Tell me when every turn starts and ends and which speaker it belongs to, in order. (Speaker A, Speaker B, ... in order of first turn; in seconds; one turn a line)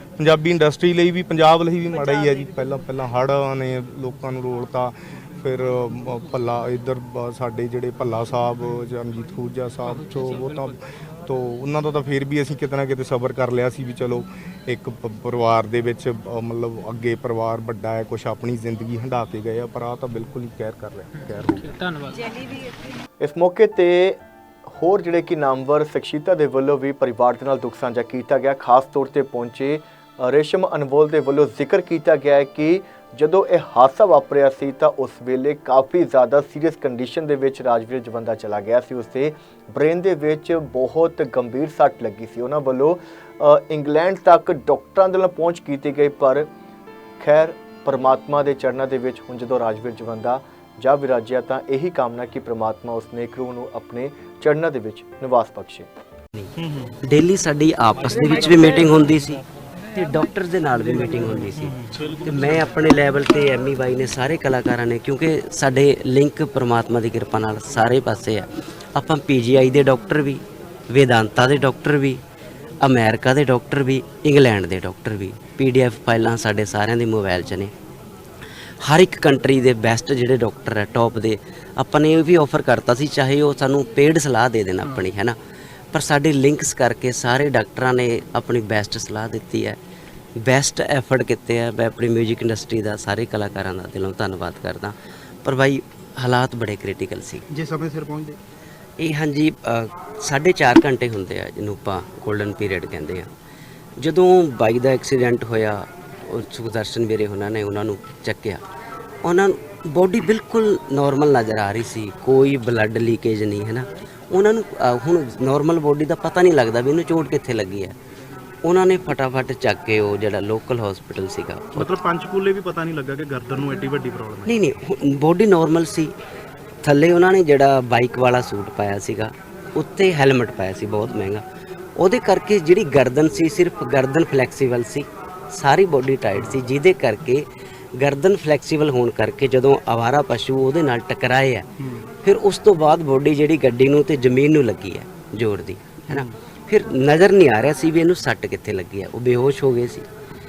Speaker A: 0.2-21.6
Speaker B: 8.6-8.9
Speaker B: 9.8-10.8
Speaker B: 21.2-22.4
Speaker C: 23.2-46.5
Speaker C: 47.2-55.9
Speaker D: 56.6-57.0
Speaker E: 57.0-59.4
Speaker E: 59.9-72.2
Speaker D: 61.1-62.7
Speaker E: 72.8-77.7
Speaker E: 78.8-85.4
Speaker E: 85.9-89.8
Speaker E: 90.4-97.5
Speaker D: 97.5-98.4
Speaker E: 99.0-103.3
Speaker E: 104.0-108.6
Speaker E: 109.2-118.0
Speaker E: 118.6-122.0
Speaker D: 121.7-124.6
Speaker E: 124.5-126.1
Speaker E: 126.8-131.4
Speaker E: 132.0-141.7
Speaker D: 141.8-142.1
Speaker E: 142.2-150.1
Speaker D: 146.1-146.3